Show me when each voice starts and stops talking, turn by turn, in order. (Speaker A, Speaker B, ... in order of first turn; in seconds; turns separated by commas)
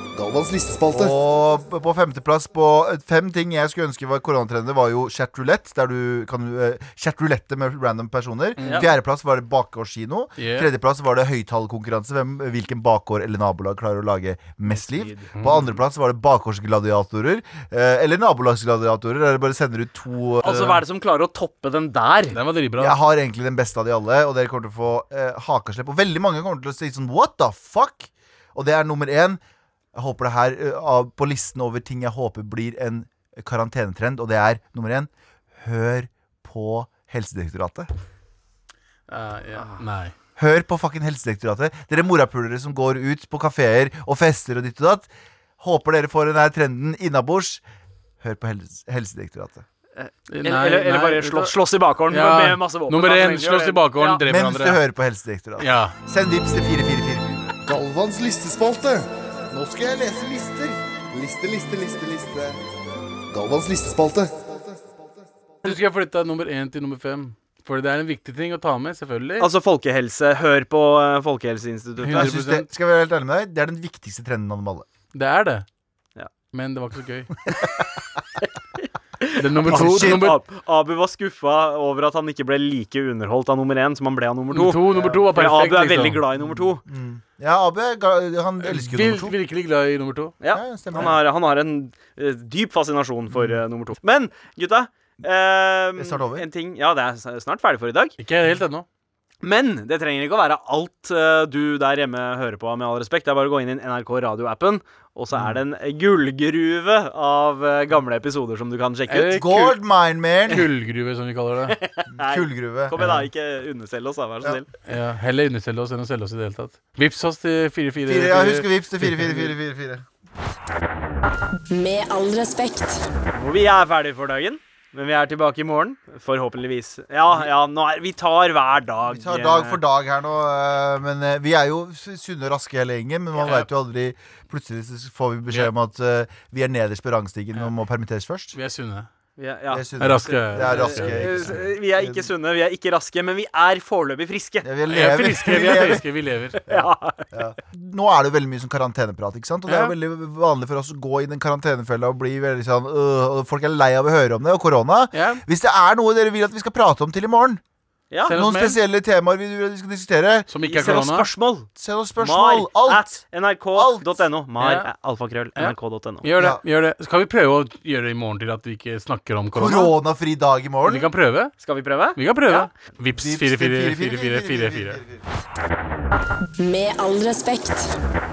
Speaker A: 0.1-1.2, Speaker B: 0.9-20.5, Speaker C: 8.6-8.9, Speaker D: 8.6-8.9, Speaker C: 10.4-10.7, Speaker C: 15.3-15.7, Speaker D: 20.4-22.4, Speaker C: 20.4-20.8, Speaker C: 22.3-23.0, Speaker B: 22.8-29.4, Speaker B: 29.9-37.9, Speaker C: 39.1-40.1, Speaker B: 40.4-45.1, Speaker B: 45.6-47.6, Speaker B: 48.2-49.6, Speaker D: 50.0-54.2, Speaker C: 50.3-51.5, Speaker C: 52.1-54.8, Speaker B: 54.2-57.5, Speaker C: 55.6-55.9, Speaker A: 57.6-62.6, Speaker A: 63.3-65.1, Speaker C: 65.6-69.5, Speaker D: 69.4-72.3, Speaker C: 72.0-72.7, Speaker B: 72.1-74.9, Speaker C: 75.1-75.7, Speaker C: 76.5-77.3, Speaker D: 79.2-86.8, Speaker C: 79.4-80.4, Speaker B: 79.7-80.3, Speaker C: 84.5-86.2, Speaker B: 86.4-89.3, Speaker C: 88.6-90.3, Speaker D: 90.4-98.2, Speaker B: 90.5-91.2, Speaker B: 96.0-96.5, Speaker C: 98.2-98.8, Speaker D: 99.4-109.4, Speaker C: 109.1-109.8, Speaker B: 109.3-110.7, Speaker C: 110.5-111.8, Speaker D: 111.7-114.7, Speaker B: 112.2-113.0, Speaker C: 113.0-113.2, Speaker C: 114.8-119.5, Speaker B: 118.0-120.0, Speaker E: 121.7-123.0, Speaker D: 123.3-129.8, Speaker B: 129.1-138.6, Speaker C: 138.5-139.1, Speaker D: 139.4-144.7, Speaker B: 139.7-142.3, Speaker C: 140.0-141.6, Speaker B: 144.6-146.0, Speaker C: 144.9-146.5, Speaker D: 146.5-147.3, Speaker B: 146.7-157.6, Speaker C: 149.7-149.9, Speaker C: 155.1-155.4, Speaker C: 158.3-158.8, Speaker B: 158.3-160.5, Speaker C: 160.5-161.3, Speaker D: 160.6-161.7, Speaker B: 161.8-163.1, Speaker D: 162.2-166.2, Speaker B: 163.8-164.2, Speaker C: 164.6-164.9, Speaker C: 165.6-169.9, Speaker B: 169.5-171.1, Speaker C: 170.8-171.5, Speaker D: 171.6-172.7, Speaker C: 172.2-175.0, Speaker B: 173.2-175.2, Speaker E: 176.6-177.9